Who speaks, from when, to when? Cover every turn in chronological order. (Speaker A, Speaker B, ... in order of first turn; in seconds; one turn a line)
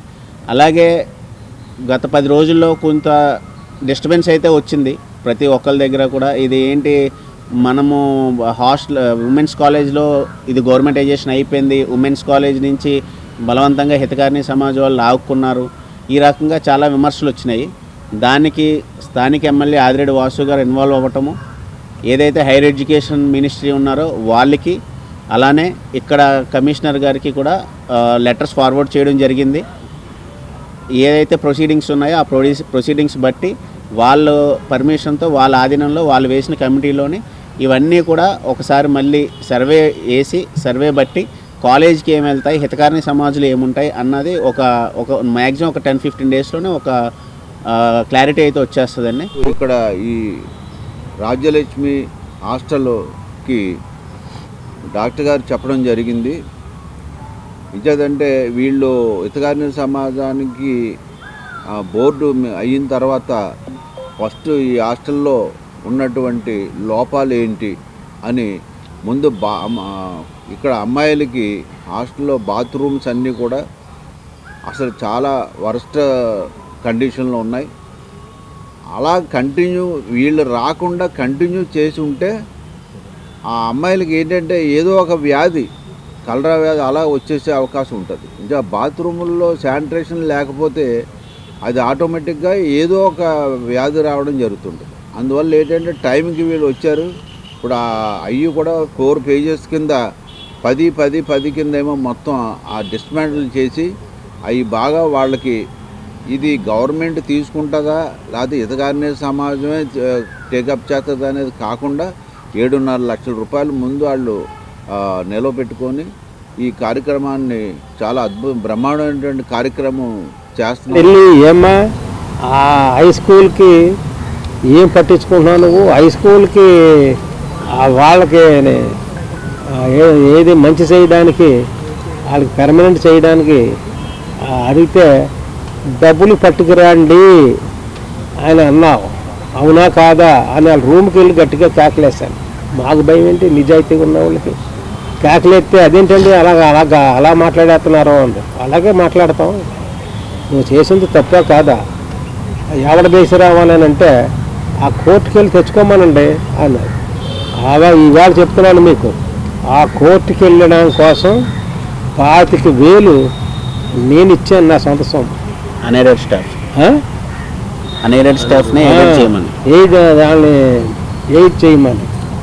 Speaker A: 0.5-0.9
Speaker A: 1.9-3.2
Speaker A: 3.9-6.9
Speaker A: 7.6-8.0
Speaker A: 8.6-12.9
Speaker A: 13.5-17.7
Speaker A: 18.2-21.3
Speaker A: 22.1-24.8
Speaker A: 25.3-29.6
Speaker A: 31.0-46.9
Speaker A: 47.7-49.4
Speaker B: 49.4-50.2
Speaker B: 51.2-52.0
Speaker B: 52.5-53.6
Speaker B: 55.0-56.4
Speaker B: 57.8-60.7
Speaker B: 61.9-63.4
Speaker B: 64.2-67.8
Speaker B: 69.1-73.6
Speaker B: 74.7-76.0
Speaker B: 76.8-77.7
Speaker B: 79.0-82.3
Speaker B: 83.6-85.7
Speaker B: 86.3-90.9
Speaker B: 91.7-97.1
Speaker B: 97.6-100.0
Speaker B: 100.6-103.9
Speaker B: 104.5-105.6
Speaker B: 106.3-112.1
Speaker B: 112.6-114.4
Speaker B: 114.9-116.1
Speaker B: 116.6-121.1
Speaker C: 120.9-121.8
Speaker C: 122.5-123.8
Speaker C: 124.7-127.2
Speaker C: 127.8-128.9
Speaker C: 129.7-131.5
Speaker C: 132.3-133.6
Speaker C: 134.4-135.3
Speaker C: 136.0-137.3
Speaker C: 138.4-144.6
Speaker C: 145.2-149.6
Speaker C: 150.5-151.8
Speaker C: 152.8-154.1
Speaker C: 154.8-156.9
Speaker C: 157.6-159.2
Speaker C: 159.7-161.4
Speaker C: 162.2-163.3
Speaker C: 164.0-165.3
Speaker A: 165.8-166.6
Speaker C: 166.8-167.0
Speaker A: 168.0-169.5
Speaker C: 168.8-172.1